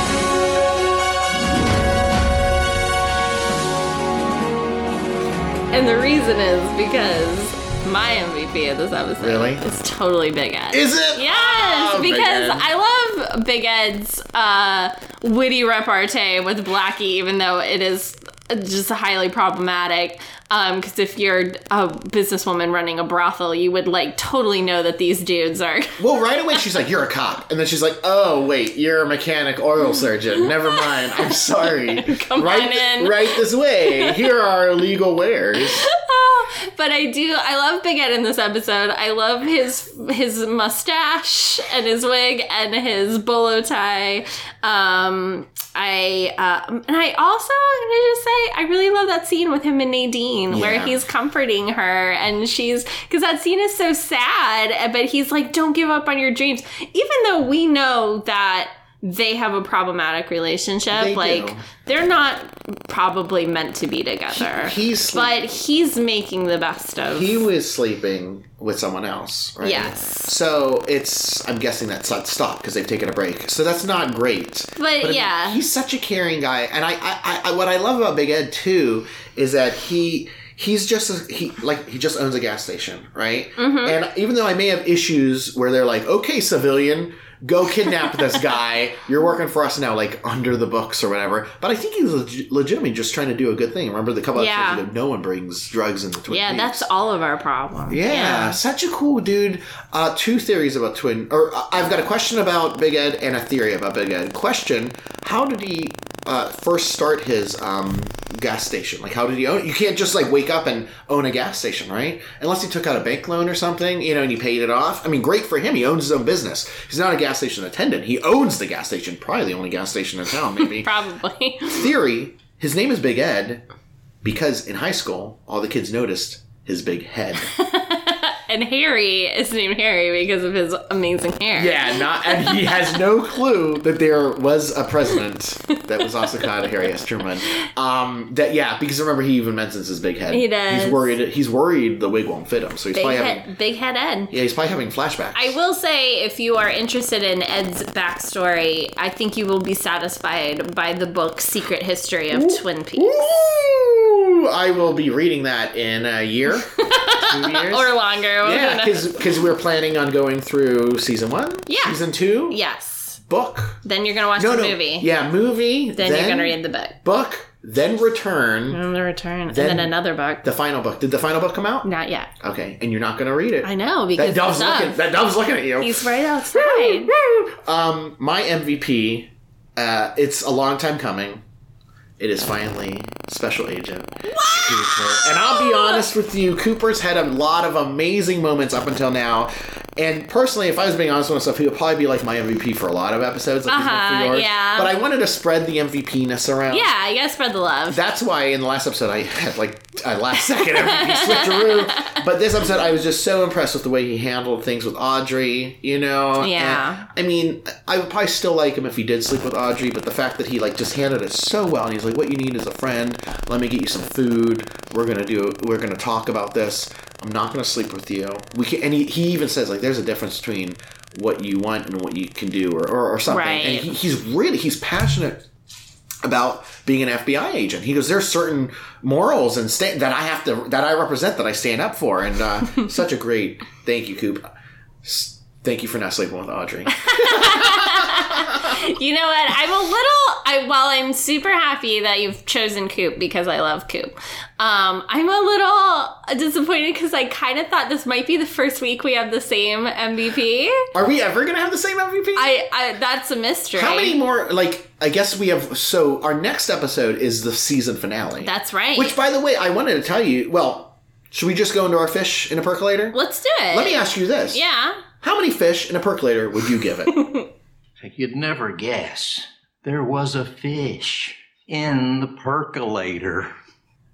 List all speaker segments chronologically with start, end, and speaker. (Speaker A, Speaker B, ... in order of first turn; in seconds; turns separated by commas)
Speaker A: 5.7-26.0, Speaker B: 9.2-9.6, Speaker B: 10.7-12.7, Speaker B: 26.0-35.8, Speaker A: 31.6-34.2, Speaker A: 35.6-67.5, Speaker B: 50.5-51.0, Speaker B: 60.9-61.6, Speaker B: 64.3-65.4, Speaker B: 67.1-96.9, Speaker A: 69.6-70.3, Speaker A: 74.8-75.6, Speaker A: 83.6-84.0, Speaker A: 94.3-94.8, Speaker A: 96.3-98.6, Speaker B: 97.9-120.9, Speaker A: 120.6-121.8, Speaker B: 121.8-123.6, Speaker B: 124.2-127.5, Speaker A: 127.5-132.9, Speaker B: 131.5-143.4, Speaker A: 140.3-141.1, Speaker A: 142.9-144.3, Speaker B: 144.3-145.5, Speaker A: 145.3-153.2, Speaker B: 152.3-162.6, Speaker A: 156.7-159.2, Speaker A: 161.7-163.2, Speaker B: 163.2-163.8, Speaker A: 163.8-165.1, Speaker B: 164.4-168.8, Speaker A: 165.9-167.0, Speaker A: 168.7-170.4, Speaker B: 169.5-171.9, Speaker A: 171.8-172.3, Speaker B: 172.4-176.0, Speaker A: 173.6-175.0, Speaker A: 175.8-177.1, Speaker B: 176.5-181.4, Speaker B: 182.2-196.9, Speaker A: 184.3-186.0, Speaker A: 193.7-194.9, Speaker A: 196.7-198.0, Speaker B: 197.9-225.4, Speaker A: 200.6-202.2, Speaker A: 206.4-207.1, Speaker A: 223.2-223.9, Speaker B: 226.2-234.4, Speaker B: 235.0-238.6, Speaker A: 237.0-250.8, Speaker B: 250.9-252.5, Speaker A: 252.3-254.2, Speaker B: 253.8-263.2, Speaker A: 258.4-259.1, Speaker A: 263.1-265.0, Speaker B: 263.7-264.6, Speaker B: 265.2-267.1, Speaker A: 267.1-267.4, Speaker C: 268.0-273.5